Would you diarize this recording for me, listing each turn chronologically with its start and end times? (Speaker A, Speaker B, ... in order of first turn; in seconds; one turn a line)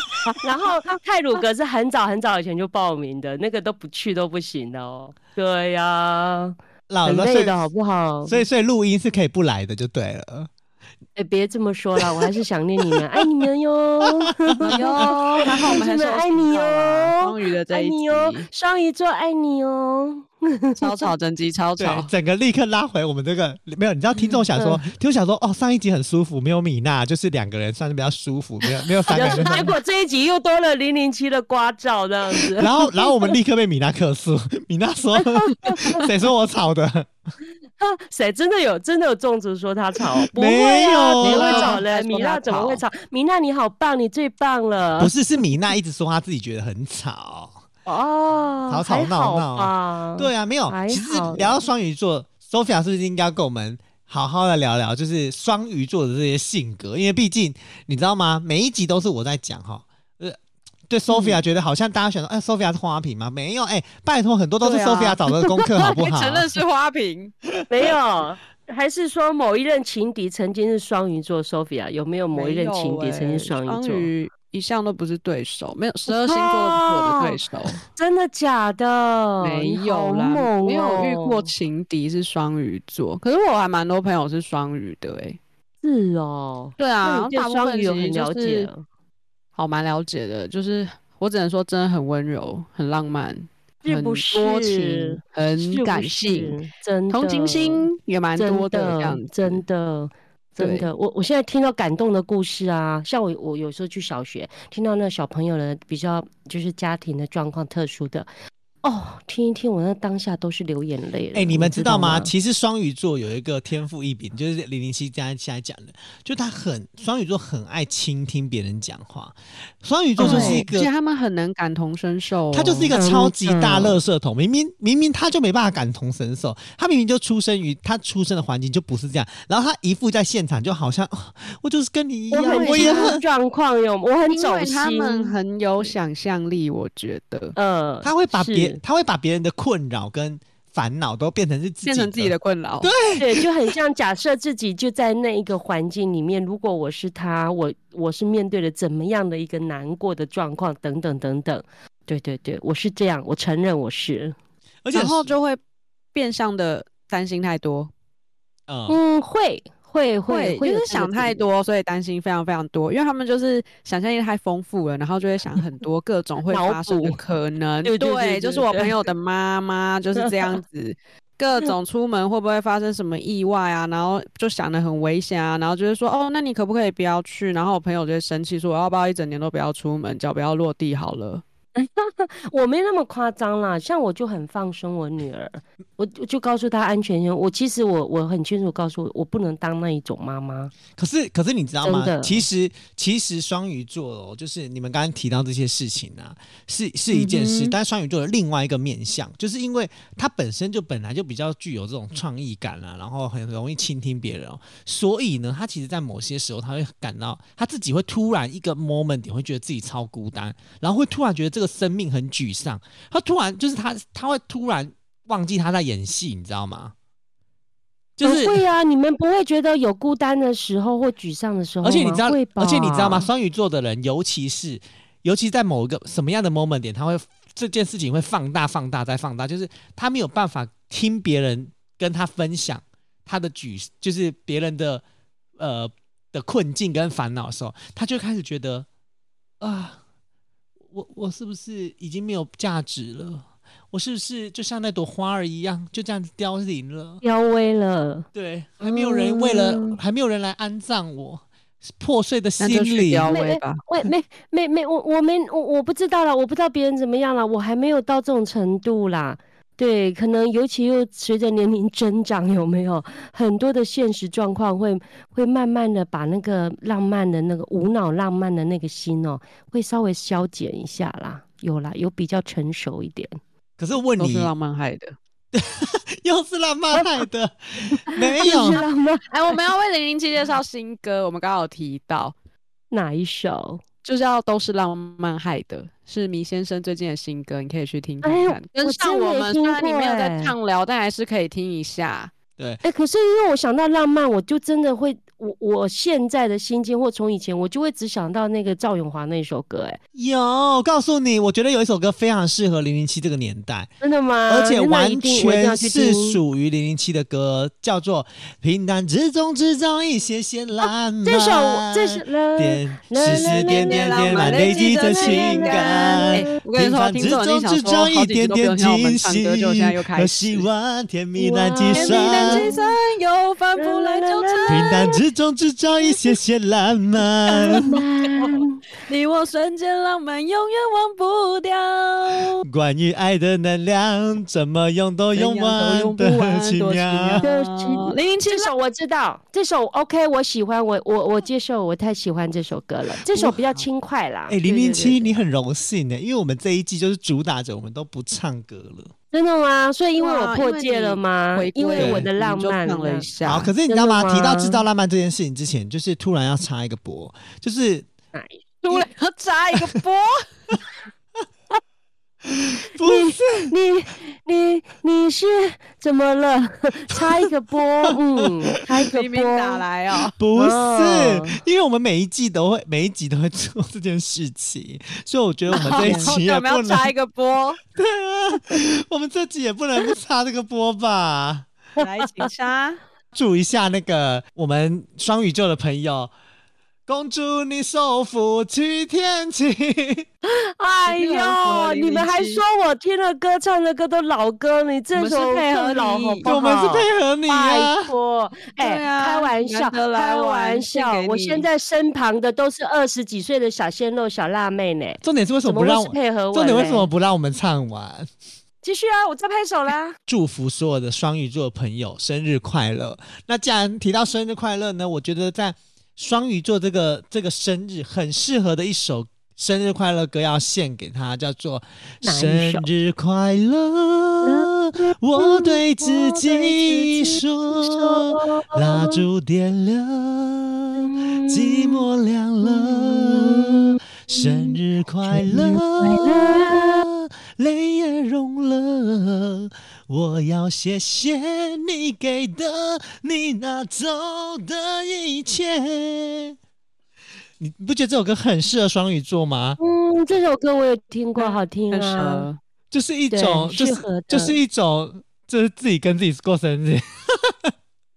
Speaker A: 0.4-8.4
Speaker B: 6.9-7.6
Speaker B: 8.2-10.5
Speaker A: 11.2-21.1
Speaker B: 12.0-12.3
Speaker B: 12.9-13.4
Speaker B: 14.0-15.7
Speaker C: 14.6-18.5
Speaker C: 20.8-22.1
Speaker B: 21.8-29.7
Speaker C: 24.1-24.4
Speaker A: 24.6-24.8
Speaker A: 29.1-33.3
Speaker C: 29.2-29.5
Speaker B: 32.6-37.1
Speaker A: 35.2-36.0
Speaker A: 37.8-45.1
Speaker B: 40.3-41.8
Speaker C: 41.2-42.8
Speaker B: 45.0-47.6
Speaker A: 47.9-51.6
Speaker B: 48.7-60.4
Speaker B: 60.9-66.6
Speaker C: 61.1-61.4
Speaker C: 64.6-67.3
Speaker A: 67.7-74.1
Speaker C: 72.3-77.8
Speaker A: 76.1-81.5
Speaker C: 79.4-85.4
Speaker A: 85.8-88.8
Speaker C: 86.8-88.7
Speaker C: 89.5-96.6
Speaker A: 93.8-108.3
Speaker C: 97.1-99.6
Speaker C: 100.6-100.9
Speaker A: 108.8-112.3
Speaker B: 111.3-120.9
Speaker A: 120.2-120.6
Speaker C: 120.2-122.9
Speaker B: 122.5-133.2
Speaker A: 122.9-124.0
Speaker A: 132.3-135.9
Speaker C: 132.4-133.2
Speaker C: 134.3-137.6
Speaker A: 137.5-138.8
Speaker B: 138.0-143.4
Speaker C: 141.8-142.9
Speaker A: 143.2-154.3
Speaker B: 154.8-155.3
Speaker C: 154.9-155.6
Speaker C: 156.1-157.9
Speaker B: 158.7-159.0
Speaker A: 158.9-161.4
Speaker C: 160.3-181.4
Speaker A: 166.5-167.2
Speaker A: 167.8-169.1
Speaker A: 181.8-190.7
Speaker B: 190.9-216.9
Speaker A: 191.8-192.5
Speaker C: 197.1-197.7
Speaker B: 218.2-218.6
Speaker A: 218.2-223.3
Speaker B: 221.8-235.0
Speaker B: 235.6-238.9
Speaker B: 239.6-240.0
Speaker B: 240.9-247.2
Speaker A: 247.2-248.3
Speaker B: 248.3-253.3
Speaker A: 248.8-250.0
Speaker C: 252.6-253.8
Speaker A: 253.3-273.3
Speaker B: 273.8-274.5
Speaker C: 274.2-275.1
Speaker B: 275.5-278.8
Speaker A: 278.1-279.6
Speaker C: 278.7-282.3
Speaker A: 282.9-283.8
Speaker C: 284.0-292.3
Speaker A: 288.2-290.5
Speaker A: 292.8-300.0
Speaker B: 300.1-303.9
Speaker A: 304.0-306.4
Speaker B: 304.5-322.7
Speaker A: 310.8-316.5
Speaker C: 313.2-320.6
Speaker A: 321.4-323.0
Speaker C: 321.9-324.9
Speaker A: 323.8-325.2
Speaker B: 324.7-327.8
Speaker C: 327.5-332.6
Speaker A: 327.7-328.8
Speaker B: 332.6-337.4
Speaker C: 335.3-338.7
Speaker A: 337.4-345.4
Speaker B: 344.5-349.1
Speaker A: 349.3-353.3
Speaker C: 350.2-353.7
Speaker B: 352.0-352.3
Speaker B: 353.4-358.1
Speaker A: 353.9-354.8
Speaker A: 358.3-359.1
Speaker C: 358.8-360.4
Speaker B: 362.5-363.7
Speaker A: 363.0-369.8
Speaker B: 367.1-367.4
Speaker C: 369.1-370.3
Speaker B: 370.4-377.1
Speaker A: 370.5-371.6
Speaker C: 375.7-377.8
Speaker A: 375.7-376.4
Speaker B: 377.9-381.7
Speaker A: 382.0-382.5
Speaker C: 382.0-383.0
Speaker B: 383.3-386.3
Speaker B: 387.1-390.2
Speaker A: 390.4-407.1
Speaker C: 391.1-392.6
Speaker C: 395.1-396.5
Speaker B: 396.4-398.1
Speaker C: 398.8-401.6
Speaker B: 405.2-408.3
Speaker A: 408.8-410.1
Speaker B: 410.3-446.5
Speaker A: 422.2-422.9
Speaker A: 424.4-429.2
Speaker A: 430.9-432.0
Speaker A: 432.6-437.1
Speaker B: 447.6-449.8
Speaker A: 449.8-452.5
Speaker C: 451.4-452.6
Speaker B: 452.9-457.7
Speaker A: 453.3-454.6